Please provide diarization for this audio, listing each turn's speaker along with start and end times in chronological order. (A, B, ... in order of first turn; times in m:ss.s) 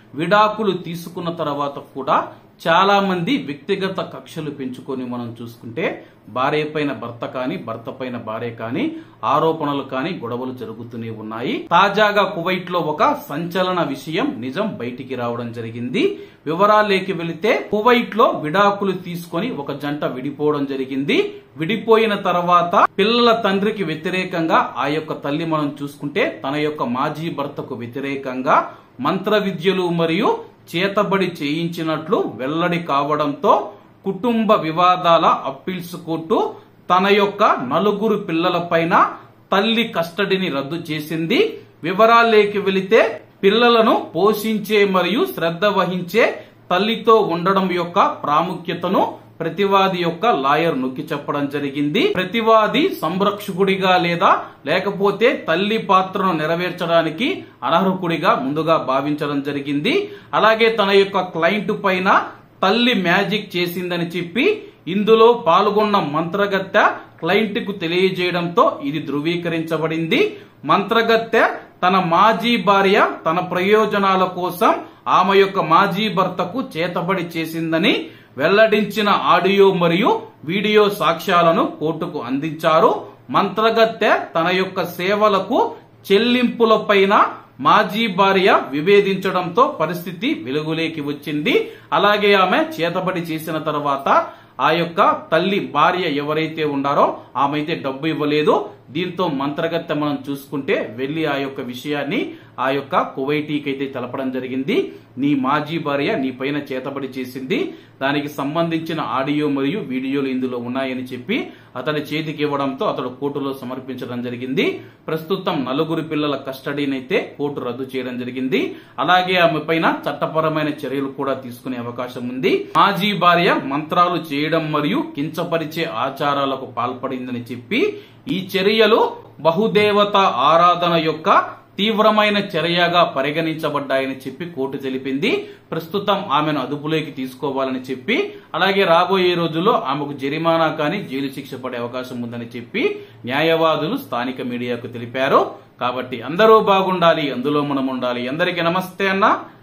0:00.2-2:29.3 A